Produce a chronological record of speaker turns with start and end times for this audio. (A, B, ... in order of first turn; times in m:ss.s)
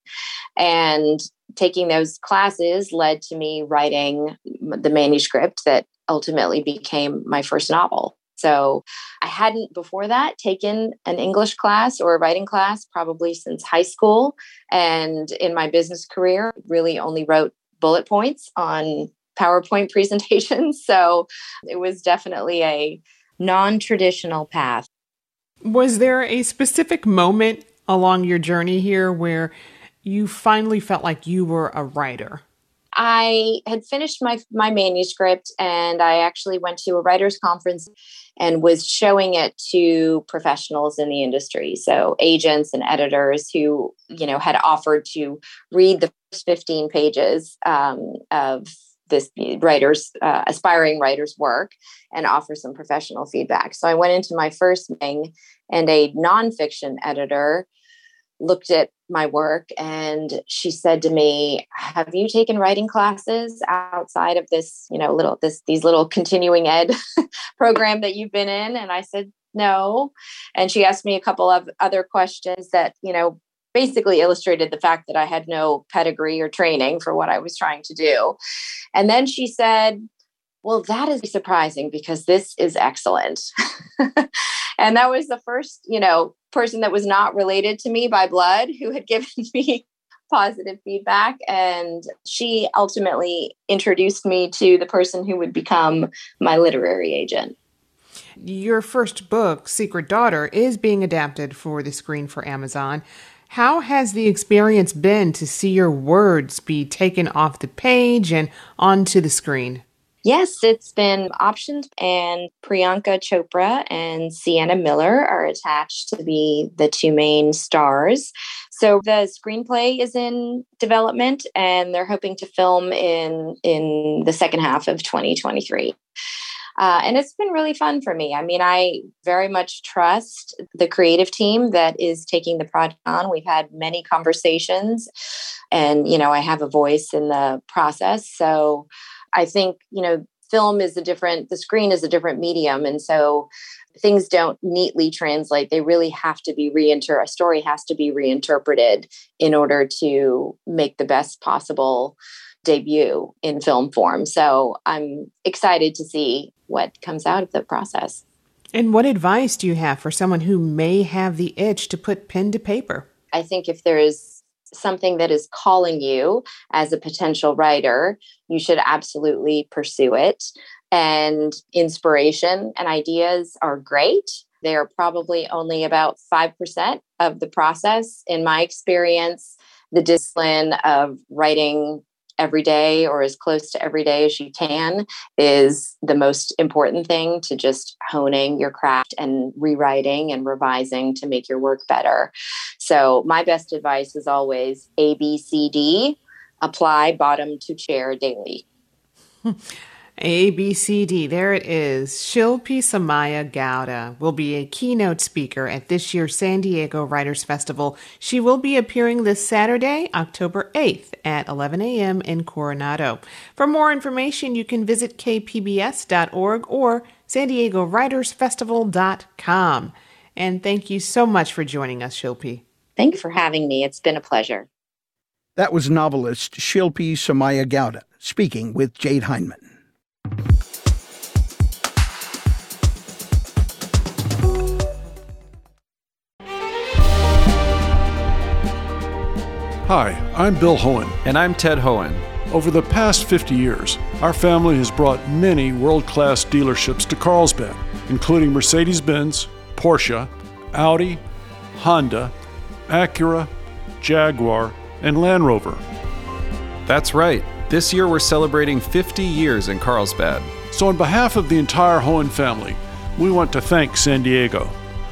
0:00.6-0:24.9 A
0:25.6-0:32.4 B
0:32.9-0:57.6 A
0:58.4-1:06.9 A
1:07.6-1:18.4 A
1:18.9-1:20.0 A
1:20.6-1:23.4 A
1:24.0-1:24.3 A
1:24.8-1:37.5 A
1:38.4-1:49.8 B
1:50.2-2:06.0 A
2:06.8-2:15.1 A
2:15.7-2:38.2 A
2:38.7-2:43.1 B
2:43.3-3:18.6 A
3:20.2-3:42.6 B
3:43.0-3:44.7 A
3:45.6-3:49.6 C
3:59.8-4:01.2 D
4:01.2-4:02.4 E
4:02.5-4:11.2 D
4:11.7-4:12.3 D
4:12.9-4:15.8 D
4:16.8-4:20.5 E
4:20.7-4:24.8 D